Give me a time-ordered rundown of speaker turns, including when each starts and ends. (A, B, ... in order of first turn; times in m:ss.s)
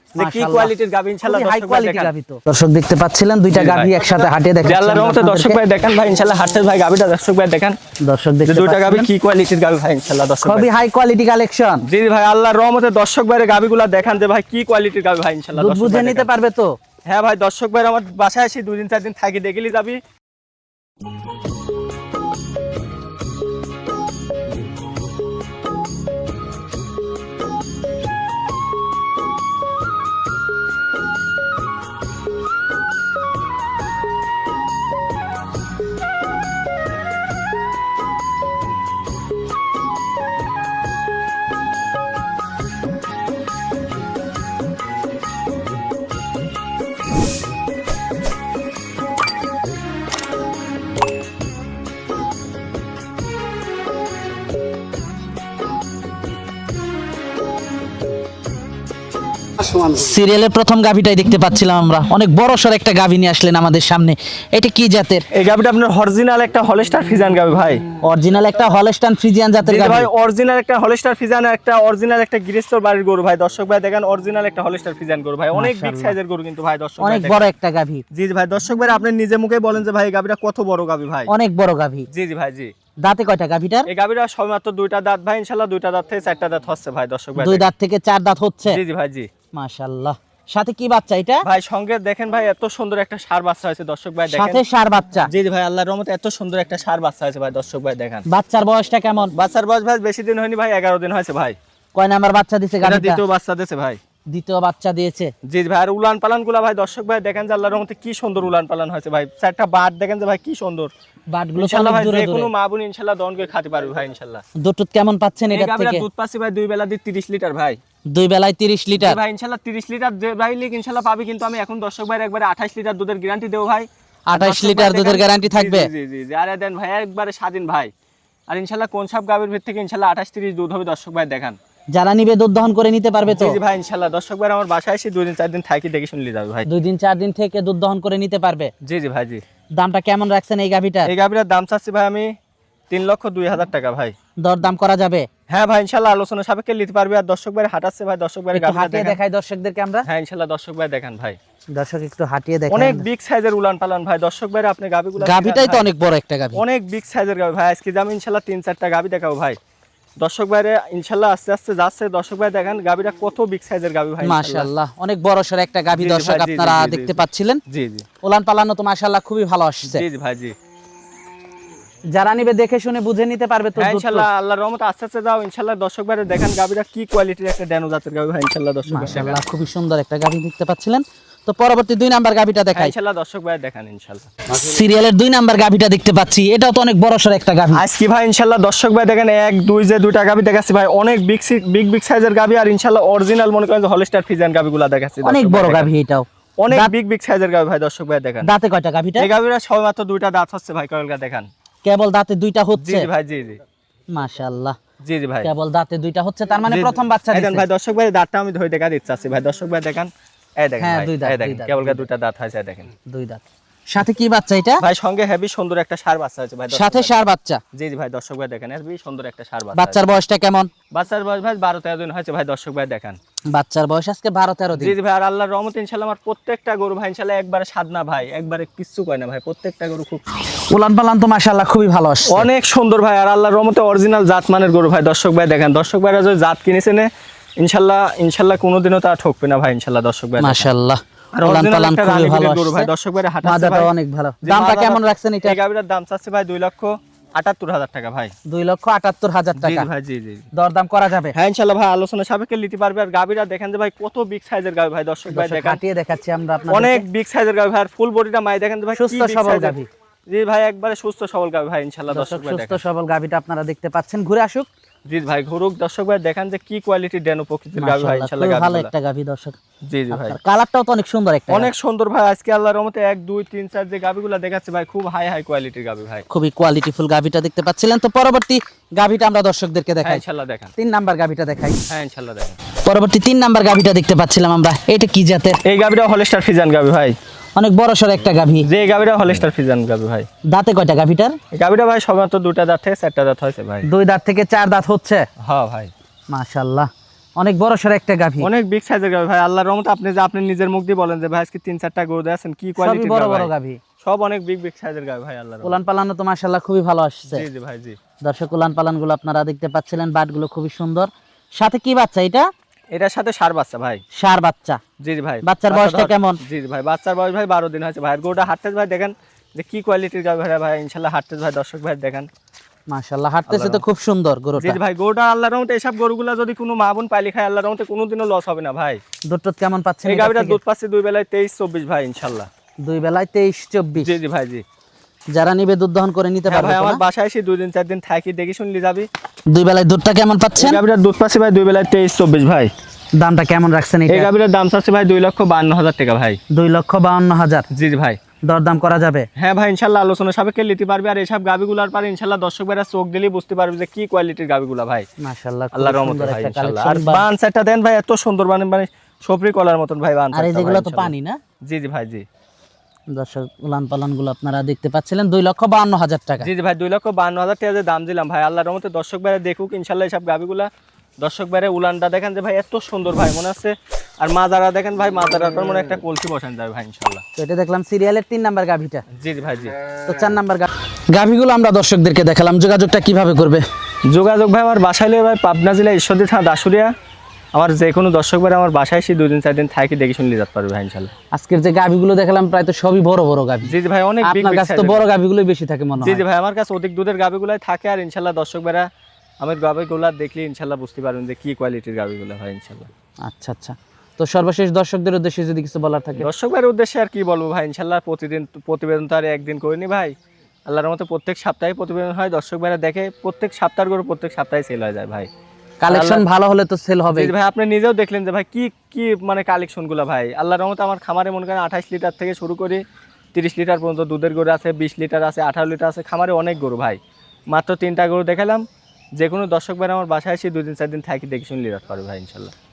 0:00.2-0:02.1 A
0:00.2-0:05.6 B
0:03.5-0:07.8 A
0:08.0-0:09.1 B
0:08.5-0:10.7 A
0:10.4-0:11.8 B
0:11.8-0:16.3 A
0:15.6-0:16.7 B
0:17.1-0:20.0 A
0:59.7-1:05.2 B
1:05.3-1:07.8 A
1:08.0-1:10.1 B
1:09.6-1:17.5 A
1:15.5-1:16.2 B
1:17.0-1:18.0 B
1:18.1-1:21.3 A
1:21.3-1:22.1 B
1:22.1-1:22.7 A
1:23.0-1:23.9 B
1:23.9-1:27.7 A
1:27.4-1:28.8 B
1:28.7-1:29.3 A
1:29.5-1:31.5 B
1:31.4-1:34.6 A
1:34.3-1:35.3 B
1:35.3-1:38.2 A
1:38.3-1:39.3 B
1:39.3-1:41.6 A
1:41.9-1:43.2 B
1:42.8-1:44.0 A
1:44.3-1:45.3 B
1:45.4-1:50.9 A
1:51.3-1:52.5 B
1:51.6-1:54.4 A
1:54.6-1:56.0 B
1:55.5-1:57.8 A
1:58.1-1:59.2 B
1:59.0-2:07.9 A
2:04.3-2:05.9 B
2:08.5-2:11.6 A
2:11.9-2:13.6 B
2:13.3-2:16.7 A
2:16.7-2:18.7 B
2:18.8-2:19.4 A
2:19.8-2:21.1 B
2:21.1-2:22.3 A
2:22.9-2:24.1 A
2:24.4-2:25.3 B
2:25.5-2:29.2 A
2:28.5-2:30.1 B
2:30.1-2:31.4 A
2:31.7-2:33.1 B
2:32.7-2:35.9 A
2:35.2-2:36.6 B
2:36.6-2:39.6 A
2:40.2-2:44.7 A
2:44.2-2:47.6 B
2:45.9-2:48.1 A
2:48.2-2:50.0 B
2:49.9-2:50.6 A
2:52.1-2:54.3 B
2:53.8-2:59.4 A
2:58.9-3:02.9 B
3:02.8-3:04.3 A
3:04.5-3:07.8 B
3:07.7-3:15.9 A
3:15.2-3:16.9 B
3:16.6-3:18.5 A
3:18.4-3:19.3 B
3:19.2-3:21.5 A
3:21.8-3:23.1 B
3:22.8-3:23.6 A
3:24.1-3:24.8 B
3:25.0-3:25.5 A
3:25.4-3:27.7 B
3:26.7-3:32.9 A
3:30.8-3:32.0 B
3:33.1-3:34.8 B
3:34.8-3:40.0 A
3:36.7-3:37.6 B
3:39.7-3:40.7 B
3:40.9-3:43.2 A
3:43.5-3:45.0 B
3:44.8-3:50.2 A
3:50.6-3:52.5 B
3:52.3-3:57.1 A
3:57.6-4:00.7 A
4:00.4-4:02.9 B
4:01.3-4:08.3 A
4:03.4-4:05.6 B
4:08.5-4:09.9 B
4:09.6-4:10.4 A
4:10.6-4:11.4 B
4:11.3-4:15.8 A
4:15.3-4:17.1 B
4:16.7-4:19.8 A
4:18.9-4:19.9 B
4:20.3-4:22.8 A
4:22.1-4:24.7 B
4:25.1-4:28.9 A
4:27.8-4:29.6 B
4:29.9-4:30.4 A
4:30.1-4:31.7 B
4:31.5-4:36.2 A
4:36.3-4:40.2 B
4:40.0-4:40.7 A
4:40.8-4:41.8 B
4:41.9-4:42.6 A
4:42.8-4:45.6 B
4:45.6-4:47.2 A
4:47.6-4:48.7 B
4:48.6-4:50.3 A
4:50.5-4:51.4 B
4:51.5-4:53.9 A
4:53.9-4:55.2 B
4:55.4-4:55.9 A
4:56.3-4:58.5 B
4:58.4-5:03.5 A
5:02.8-5:03.8 B
5:04.0-5:05.8 A
5:05.6-5:07.4 B
5:07.3-5:08.0 A
5:08.2-5:12.5 B
5:12.9-5:14.0 A
5:14.2-5:14.8 B
5:15.0-5:22.3 A
5:15.4-5:16.4 B
5:22.9-5:24.8 B
5:23.5-5:23.8 A
5:24.6-5:29.0 A
5:29.3-5:30.6 B
5:30.0-5:32.5 A
5:32.8-5:34.1 B
5:34.0-5:34.6 A
5:35.3-5:37.0 B
5:36.5-5:39.1 A
5:39.5-5:40.8 B
5:40.6-5:42.7 A
5:43.2-5:44.3 B
5:44.1-5:46.4 A
5:46.5-5:47.7 B
5:47.7-5:48.2 A
5:48.4-5:49.3 B
5:49.4-5:55.1 A
5:55.2-5:57.3 B
5:55.7-6:01.1 A
6:00.3-6:01.4 B
6:01.6-6:02.2 A
6:03.1-6:06.5 B
6:06.4-6:10.7 A
6:11.2-6:17.2 A
6:17.4-6:19.0 B
6:19.1-6:19.8 A
6:20.0-6:23.6 B
6:24.1-6:26.9 A
6:27.5-6:31.1 A
6:31.3-6:36.2 B
6:33.7-6:35.0 A
6:36.0-6:38.9 A
6:39.4-6:42.9 A
6:43.3-6:46.3 B
6:46.2-6:50.1 A
6:50.7-6:55.3 A
6:55.8-6:57.3 B
6:55.9-6:56.2 A
6:57.1-7:02.8 A
7:03.3-7:07.0 A
7:07.5-7:08.6 A
7:09.2-7:12.5 A